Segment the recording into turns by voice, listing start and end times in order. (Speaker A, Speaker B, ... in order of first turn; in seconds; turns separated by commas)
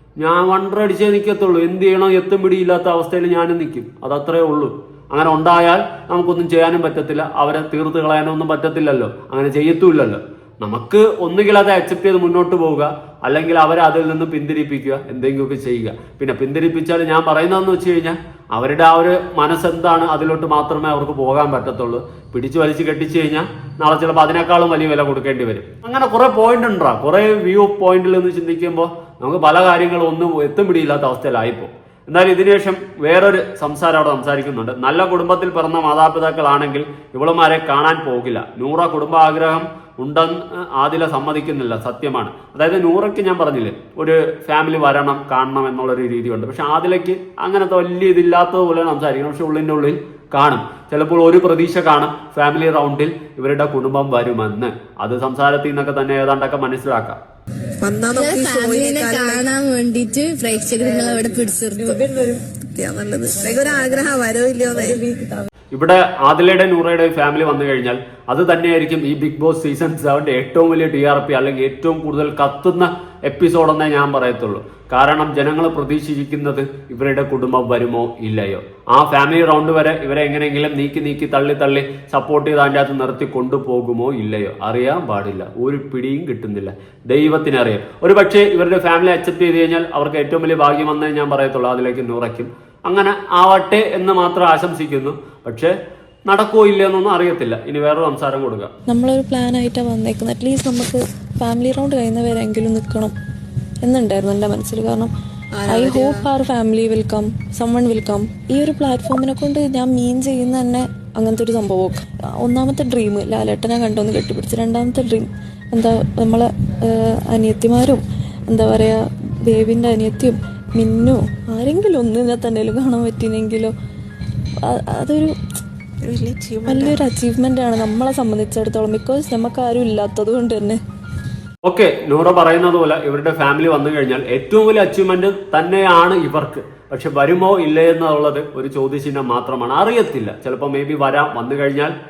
Speaker A: 0.2-57.2, Speaker B: 57.8-59.5, Speaker C: 58.1-62.4, Speaker B: 62.6-65.1, Speaker A: 65.7-95.7, Speaker A: 96.3-98.7, Speaker D: 98.9-103.1, Speaker D: 103.8-105.1, Speaker B: 105.5-106.2, Speaker D: 105.7-123.7, Speaker D: 124.6-125.3, Speaker B: 126.0-127.0, Speaker D: 126.7-130.8, Speaker A: 131.6-141.9